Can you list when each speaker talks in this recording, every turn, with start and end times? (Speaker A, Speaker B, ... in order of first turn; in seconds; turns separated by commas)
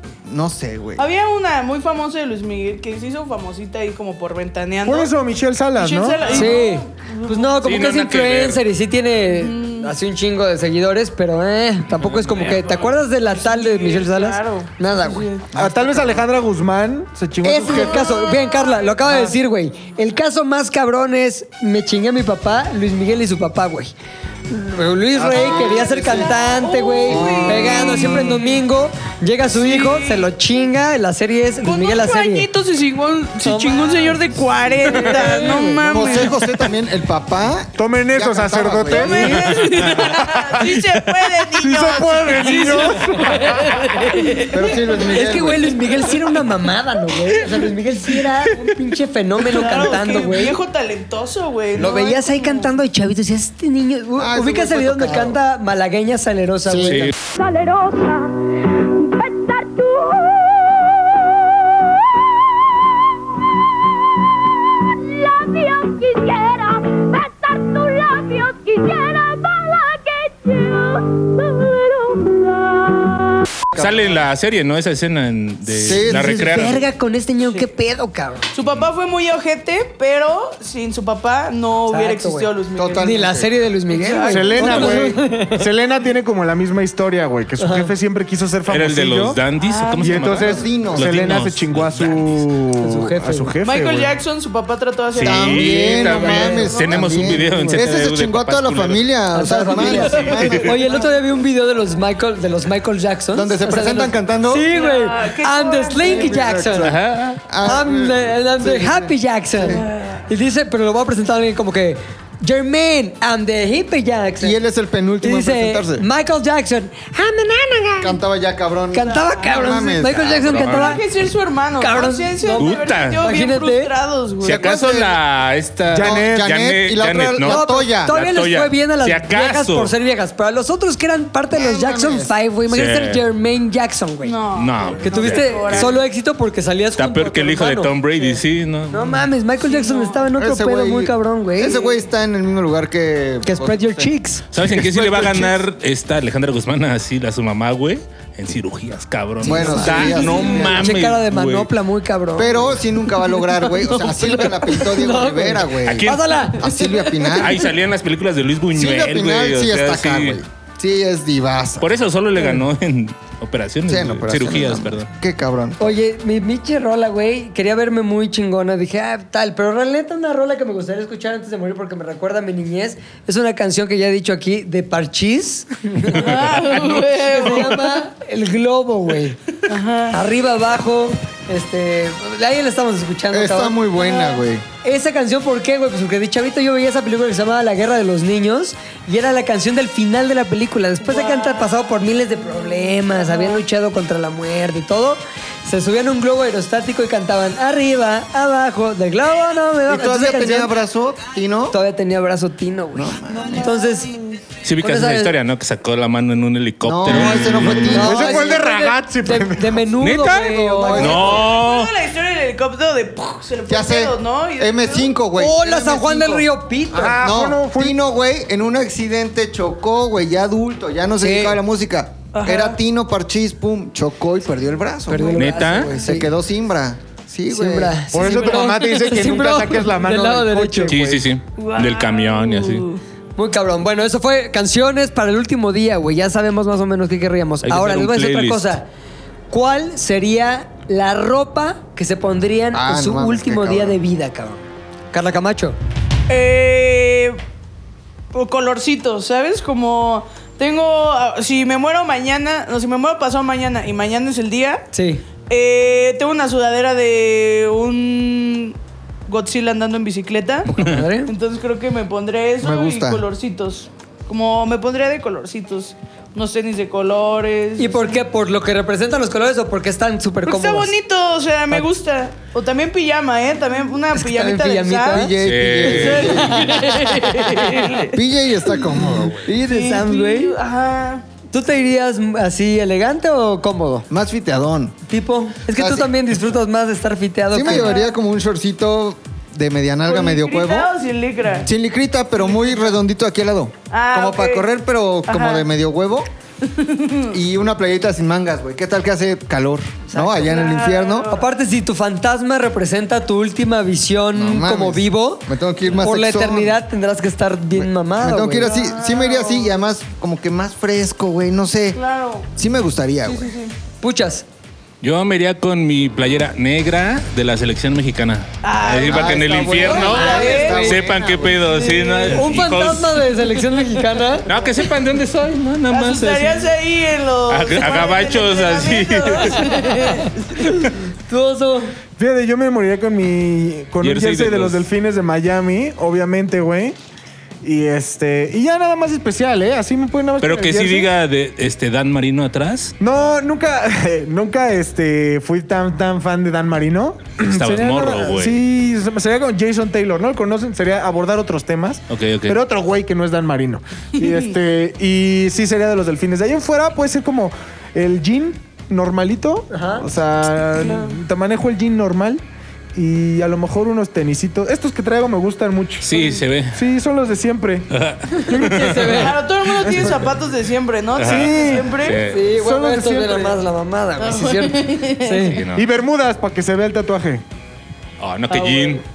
Speaker A: 0.3-1.1, Speaker B: 1.0-5.1, Speaker C: 4.8-6.4, Speaker B: 5.8-7.6, Speaker D: 6.2-6.5, Speaker E: 6.3-15.5, Speaker D: 7.6-8.6, Speaker B: 9.3-9.9, Speaker D: 12.0-12.9, Speaker B: 12.4-15.5, Speaker A: 15.5-16.2, Speaker C: 15.6-18.1, Speaker E: 17.4-23.9, Speaker B: 17.6-19.4, Speaker E: 24.5-32.5, Speaker A: 25.1-26.4, Speaker B: 25.4-28.5, Speaker A: 27.1-28.4, Speaker B: 29.5-30.3, Speaker B: 31.6-36.4, Speaker E: 33.4-34.2, Speaker E: 34.8-36.3, Speaker A: 35.9-39.3, Speaker C: 37.8-40.7, Speaker B: 38.9-45.2, Speaker D: 39.2-41.3, Speaker C: 41.5-43.9, Speaker A: 44.5-45.7, Speaker E: 45.1-50.6, Speaker B: 49.5-52.7, Speaker E: 51.7-57.1, Speaker A: 54.2-55.4, Speaker A: 56.7-57.0, Speaker D: 56.9-57.1, Speaker F: 57.3-62.0, Speaker F: 63.6-73.4, Speaker A: 73.7-74.3, Speaker D: 73.8-76.8, Speaker A: 75.7-76.7, Speaker E: 75.9-78.5, Speaker B: 78.5-83.1, Speaker E: 81.9-85.7, Speaker A: 82.7-83.5, Speaker B: 83.9-85.1, Speaker C: 84.3-89.4, Speaker E: 87.6-87.9, Speaker D: 88.7-92.5, Speaker B: 89.6-90.4, Speaker C: 90.0-94.2, Speaker A: 90.2-91.4, Speaker E: 92.8-93.5, Speaker B: 93.6-96.8, Speaker D: 95.1-99.0, Speaker A: 95.2-101.1, Speaker E: 96.1-97.9, Speaker E: 99.3-106.9, Speaker B: 99.8-101.2, Speaker D: 100.2-100.5, Speaker A: 103.3-104.7, Speaker B: 104.7-106.4, Speaker A: 106.0-109.8, Speaker D: 106.8-107.4, Speaker E: 107.6-114.6, Speaker B: 109.7-110.2, Speaker A: 114.4-116.0, Speaker E: 115.2-118.2, Speaker A: 118.0-121.0, Speaker E: 118.9-121.0, Speaker B: 119.4-119.6, Speaker D: 120.5-120.9, Speaker B: 120.7-124.7, Speaker E: 121.8-124.0, Speaker D: 122.6-123.2, Speaker D: 124.4-129.9, Speaker A: 124.4-125.2, Speaker C: 125.9-126.5, Speaker A: 126.0-128.1, Speaker E: 127.5-134.4, Speaker A: 131.5-132.3, Speaker D: 132.7-133.2, Speaker B: 134.2-136.0, Speaker D: 134.6-135.9, Speaker E: 135.0-137.9, Speaker D: 137.0-139.3, Speaker E: 138.9-141.8, Speaker B: 139.6-140.3, Speaker A: 140.4-145.6, Speaker B: 141.6-142.0, Speaker E: 143.4-144.4, Speaker D: 144.5-151.7, Speaker A: 149.4-150.9, Speaker E: 149.4-157.4, Speaker A: 152.4-157.7, Speaker D: 155.8-156.6, Speaker D: 157.4-160.4, Speaker A: 158.7-161.9, Speaker D: 161.8-165.1, Speaker E: 162.4-162.6, Speaker A: 163.9-166.0, Speaker E: 165.8-179.4, Speaker B: 176.1-178.0, Speaker B: 179.7-180.2, Speaker E: 180.1-183.8, Speaker A: 183.3-184.7, Speaker B: 184.0-184.4, Speaker E: 184.8-200.7, Speaker B: 191.1-191.7, Speaker B: 193.0-193.6, Speaker A: 199.9-201.8, Speaker E: 201.7-205.3, Speaker A: 202.9-203.7, Speaker D: 204.6-208.1, Speaker A: 206.8-208.4, Speaker E: 207.9-211.2, Speaker C: 207.9-209.9, Speaker D: 210.0-211.9, Speaker A: 210.2-211.5, Speaker B: 211.0-215.1, Speaker A: 213.7-216.5, Speaker E: 215.4-217.2, Speaker C: 216.9-218.0, Speaker A: 217.2-228.1, Speaker E: 221.2-221.6, Speaker B: 222.3-222.8, Speaker E: 225.1-226.3, Speaker D: 225.4-225.9, Speaker E: 227.5-230.9, Speaker C: 228.1-231.3, Speaker B: 228.2-228.8, Speaker D: 230.9-232.9, Speaker B: 231.6-233.0, Speaker E: 233.4-238.9, Speaker D: 237.6-238.8, Speaker E: 239.5-245.8, Speaker A: 242.7-244.0, Speaker B: 246.3-247.4, Speaker B: 248.3-254.9, Speaker E: 254.9-255.2, Speaker B: 255.5-258.8, Speaker B: 259.3-260.7, Speaker E: 260.7-261.3, Speaker B: 261.3-268.2, Speaker A: 262.6-263.2, Speaker E: 267.8-270.9, Speaker B: 270.4-275.3, Speaker E: 274.1-275.3, Speaker A: 275.1-276.9, Speaker D: 275.4-276.6, Speaker B: 275.8-278.2, Speaker A: 278.1-280.1, Speaker B: 279.6-281.3, Speaker E: 279.7-280.6, Speaker E: 281.5-284.1, Speaker A: 284.1-285.0, Speaker E: 285.1-288.0, Speaker A: 285.7-286.1, Speaker A: 287.5-290.9, Speaker B: 287.6-288.1, Speaker B: 290.1-291.7, Speaker A: 291.6-296.3, Speaker B: 292.4-293.0, Speaker B: 293.9-294.7, Speaker B: 295.3-295.7, Speaker B: 296.6-297.4, Speaker A: 297.3-301.4, Speaker E: 300.1-300.6, Speaker B: 300.4-301.5, Speaker E: 301.3-305.5, Speaker A: 304.3-306.8, Speaker E: 306.0-308.7, Speaker A: 307.7-312.0, Speaker B: 308.6-309.8, Speaker B: 311.9-312.4, Speaker A: 312.5-313.5, Speaker B: 313.3-313.7, Speaker E: 314.0-314.4, Speaker D: 315.0-323.2, Speaker B: 318.6-321.0, Speaker A: 318.9-321.7, Speaker E: 320.2-320.8, Speaker B: 321.6-322.5, Speaker E: 322.3-324.4, Speaker D: 324.4-326.7, Speaker B: 325.9-330.8, Speaker D: 327.5-330.0, Speaker D: 330.6-330.9, Speaker E: 331.3-331.9, Speaker C: 332.2-336.9, Speaker D: 334.0-334.9, Speaker C: 337.6-341.1, Speaker D: 340.4-342.9, Speaker C: 343.0-362.4, Speaker D: 347.4-348.6, Speaker D: 352.1-352.6, Speaker B: 354.2-354.5, Speaker E: 359.7-360.1, Speaker B: 360.8-361.2, Speaker C: 362.9-366.2, Speaker D: 366.0-366.8, Speaker C: 366.7-367.9, Speaker D: 367.9-370.2, Speaker E: 368.3-369.4, Speaker C: 368.5-369.1, Speaker B: 369.0-372.2, Speaker C: 369.8-370.2, Speaker D: 371.1-372.4, Speaker C: 371.2-373.6, Speaker E: 372.2-375.6, Speaker B: 374.2-375.6, Speaker D: 375.4-375.9, Speaker C: 375.7-377.4, Speaker D: 378.2-379.0, Speaker B: 378.5-379.0